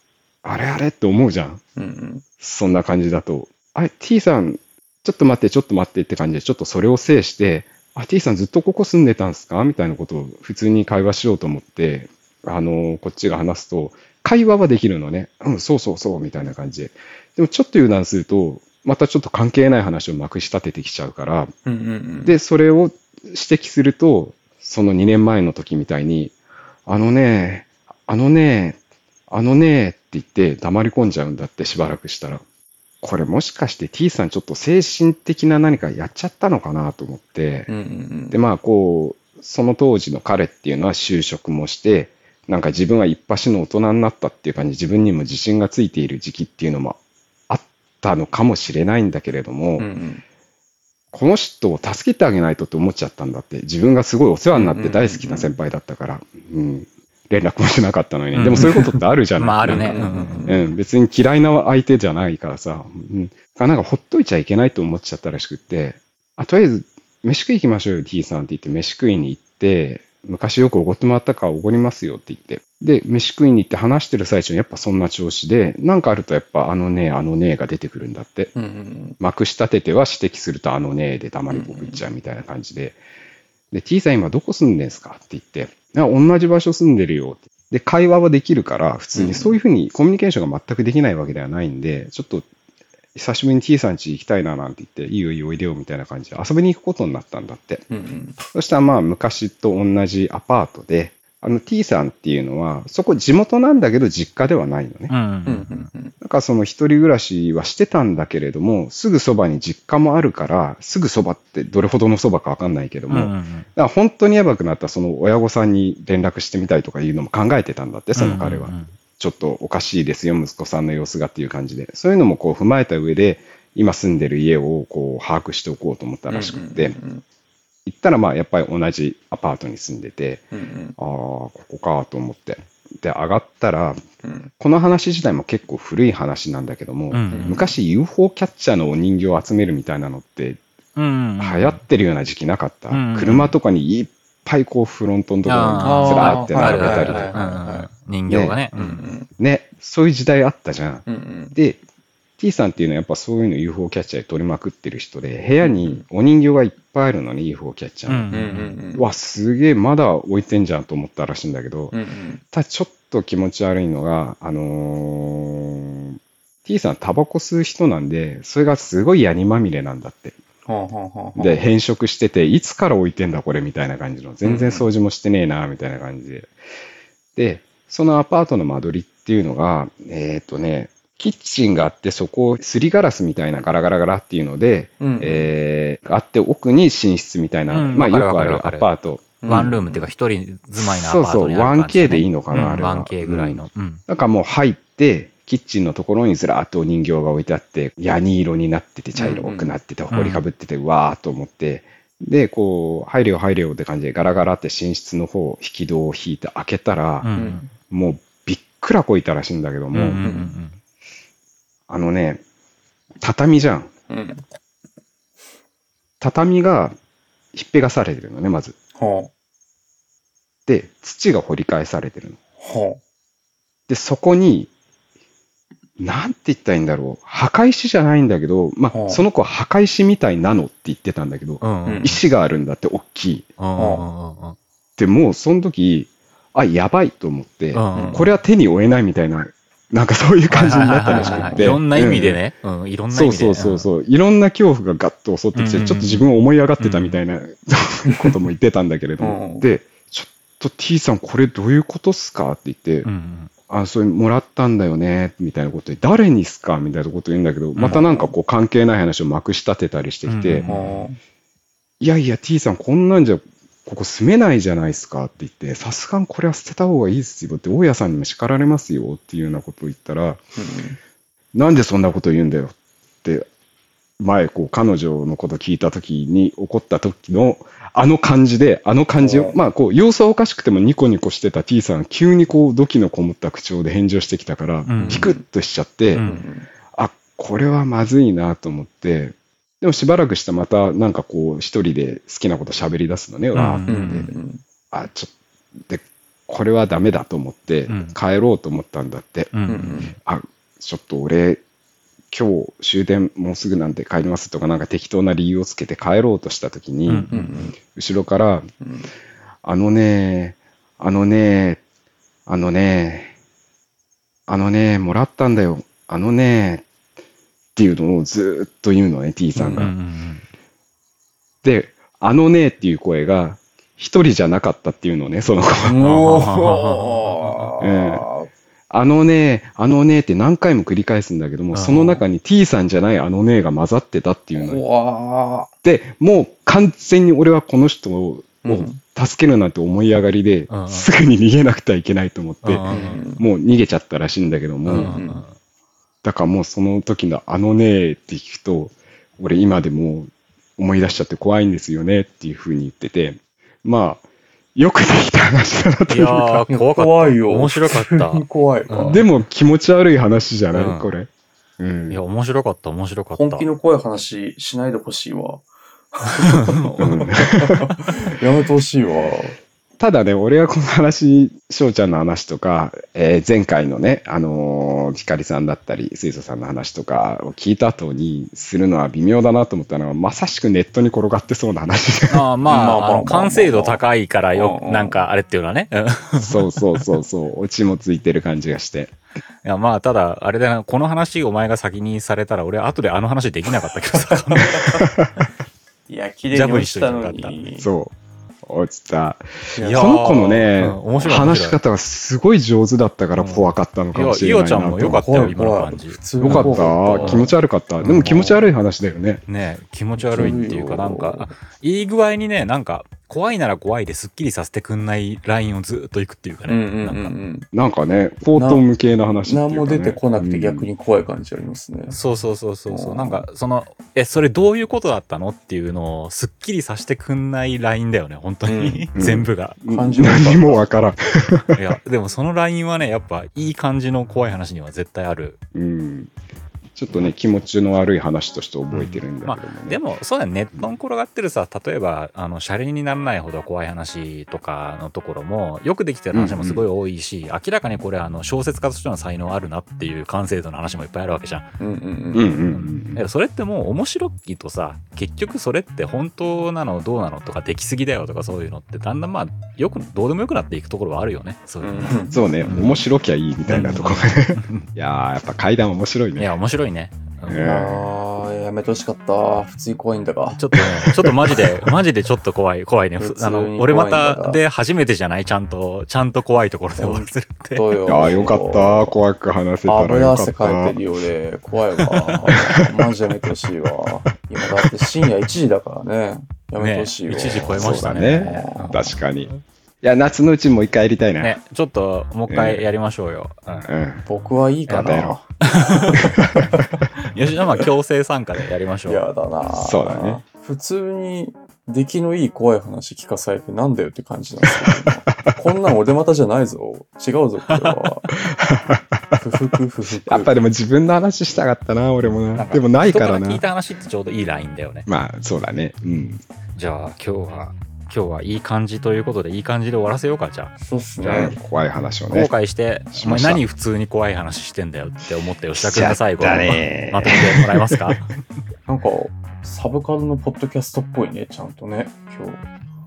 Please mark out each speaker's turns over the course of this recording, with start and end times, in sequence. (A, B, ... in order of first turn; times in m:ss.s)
0:00.4-0:01.6 A
0:01.8-0:02.2 B
0:02.4-0:21.5 A
0:21.7-0:22.3 B
0:22.2-0:26.4 A
0:26.9-0:28.8 A
0:29.3-0:32.4 A
0:33.0-0:37.7 A
0:37.7-0:38.4 B
0:38.3-0:49.9 A
0:49.8-0:50.2 B
0:51.1-1:18.5 A
0:54.5-0:55.6 B
0:58.3-1:00.6 C
0:58.5-0:58.9 B
0:59.6-1:00.6 B
1:18.5-1:19.2 B
1:19.2-1:23.0 A
1:21.5-1:22.0 B
1:23.7-1:32.4 A
1:29.1-1:29.5 B
1:33.1-1:37.8 A
1:37.9-1:38.4 B
1:38.5-1:45.1 A
1:45.1-1:45.9 C
1:45.4-1:46.1 B
1:46.2-2:07.0 A
1:53.1-1:53.7 C
1:58.1-1:58.9 C
2:06.3-2:07.2 B
2:07.8-2:10.4 A
2:10.5-2:11.0 B
2:11.0-2:14.0 A
2:14.2-2:14.5 B
2:14.6-2:20.6 A
2:17.1-2:17.6 C
2:17.3-2:17.6 B
2:21.0-2:21.8 C
2:21.4-2:27.4 A
2:22.9-2:23.5 C
2:25.4-2:29.0 C
2:25.8-2:27.9 B
2:28.3-2:28.7 A
2:28.7-2:29.3 B
2:29.4-2:31.8 A
2:31.1-2:31.5 B
2:32.4-2:38.3 A
2:35.6-2:36.0 B
2:38.1-2:38.8 C
2:38.3-2:39.1 B
2:38.9-2:42.0 A
2:41.9-2:42.4 B
2:42.5-2:50.4 A
2:50.7-2:51.7 B
2:51.4-2:56.5 A
2:54.4-2:54.9 B
2:57.4-3:09.7 A
3:05.0-3:05.5 B
3:07.7-3:08.9 C
3:09.4-3:10.0 B
3:09.4-3:14.0 C
3:10.8-3:27.3 A
3:19.1-3:19.7 B
3:20.1-3:20.4 C
3:27.2-3:27.6 C
3:27.3-3:27.7 B
3:27.9-3:30.2 A
3:29.9-3:30.8 C
3:30.2-3:30.5 B
3:31.9-3:32.4 A
3:33.2-3:33.9 A
3:34.1-3:34.4 B
3:36.2-3:36.9 A
3:37.5-3:38.8 A
3:39.0-3:39.3 B
3:40.7-3:42.4 A
3:42.6-3:43.0 B
3:43.9-3:44.7 A
3:46.0-3:53.5 A
3:48.9-3:49.2 B
3:51.6-3:52.1 C
3:51.8-3:52.2 B
3:53.6-3:54.6 C
3:53.8-3:54.0 B
3:55.0-4:02.4 A
3:57.7-3:58.3 C
3:57.9-3:58.2 B
4:00.5-4:03.9 C
4:01.0-4:01.8 B
4:03.1-4:13.1 A
4:05.5-4:06.2 C
4:06.8-4:07.2 C
4:08.1-4:08.4 B
4:09.2-4:09.7 B
4:13.0-4:13.5 C
4:13.7-4:20.6 A
4:17.8-4:18.0 C
4:17.9-4:18.3 B
4:20.2-4:21.1 C
4:20.6-4:21.2 B
4:22.0-4:30.4 A
4:30.6-4:31.0 B
4:31.5-4:33.5 A
4:34.2-4:46.2 A
4:39.2-4:39.6 B
4:44.9-4:45.3 C
4:44.9-4:45.4 B
4:46.1-4:46.4 C
4:46.2-4:46.7 B
4:46.9-4:54.3 A
4:53.5-4:54.3 C
4:53.9-4:54.6 B
4:54.9-4:59.5 A
4:57.9-4:58.1 C
4:59.5-5:00.1 C
4:59.7-5:00.1 B
5:00.2-5:01.6 A
5:02.3-5:08.7 A
5:07.1-5:07.5 C
5:07.3-5:07.8 B
5:08.8-5:09.1 B
5:09.6-5:11.8 A
5:12.5-5:13.3 A
5:14.5-5:16.8 A
5:17.8-5:19.9 A
5:19.6-5:20.4 C
5:21.6-5:26.3 A
5:25.8-5:28.5 B
5:26.0-5:27.7 C
5:27.8-5:28.3 A
5:28.9-5:34.8 A
5:31.7-5:32.2 C
5:34.5-5:35.7 B
5:35.8-5:45.2 A
5:38.6-5:39.0 B
5:40.7-5:41.1 C
5:42.6-5:43.2 C
5:42.9-5:43.4 B
5:44.9-5:45.4 B
5:44.9-5:45.5 C
5:46.2-5:54.2 A
5:54.7-5:56.6 A
5:56.1-5:59.2 C
5:56.7-5:59.2 B
5:59.0-6:02.2 A
6:00.7-6:01.1 C
6:02.1-6:03.7 C
6:03.3-6:09.6 B
6:06.5-6:08.0 C
6:07.0-6:07.8 A
6:10.0-6:22.4 A
6:22.3-6:27.0 C
6:22.6-6:25.2 B
6:26.4-6:29.1 A
6:29.6-6:35.0 C
6:34.3-6:35.0 B
6:35.0-6:35.3 A
6:36.1-6:37.9 B
6:36.5-6:37.6 C
6:37.8-6:45.6 A
6:39.8-6:40.6 B
6:39.8-6:41.8 C
6:41.2-6:41.5 B
6:43.3-6:47.5 C
6:44.9-6:48.6 B
6:46.4-6:49.4 A
6:49.5-6:57.3 C
6:50.2-6:51.5 B
6:56.7-6:57.7 B
6:57.7-7:00.9 A
6:58.5-6:58.8 B
6:59.4-7:02.2 B
7:02.1-7:09.8 C
7:02.9-7:03.4 B
7:08.7-7:09.1 B
7:09.2-7:11.8 A
7:09.8-7:10.9 B
7:11.7-7:15.6 C
7:15.7-7:16.3 A
7:16.9-7:20.0 A
7:18.9-7:31.7 C
7:26.3-7:26.8 A
7:31.8-7:32.5 B
7:32.3-7:33.2 A
7:32.6-7:43.0 C
7:41.8-7:42.4 B
7:42.3-7:46.5 A
7:43.7-7:44.9 C
7:46.4-7:47.7 C
7:47.5-7:48.0 A
7:47.6-7:50.7 B
7:50.6-7:57.9 C
7:51.1-7:51.6 A
7:53.2-7:54.6 B
7:57.0-7:59.2 B
7:58.1-8:01.0 A
7:59.9-8:09.0 B
8:02.2-8:02.5 C
8:02.5-8:03.0 A
8:06.8-8:09.6 C
8:07.7-8:09.5 A
8:10.0-8:11.6 A
8:11.4-8:13.9 C
8:12.5-8:12.8 A
8:13.9-8:14.2 A
8:14.2-8:16.8 B
8:14.9-8:16.4 C
8:14.9-8:15.4 A
8:16.3-8:16.8 A
8:17.3-8:19.3 C
8:19.1-8:28.3 B
8:19.7-8:20.4 A
8:24.6-8:25.6 A
8:27.7-8:28.0 C
8:28.3-8:29.4 A
8:29.4-8:30.5 B
8:30.2-8:33.6 A
8:32.5-8:35.1 C
8:35.1-8:36.4 A
8:36.8-8:41.5 C
8:40.8-8:41.6 B
8:41.3-8:42.5 A
8:42.3-8:48.3 C
8:43.1-8:43.6 A
8:45.8-8:48.2 A
8:48.9-8:52.6 B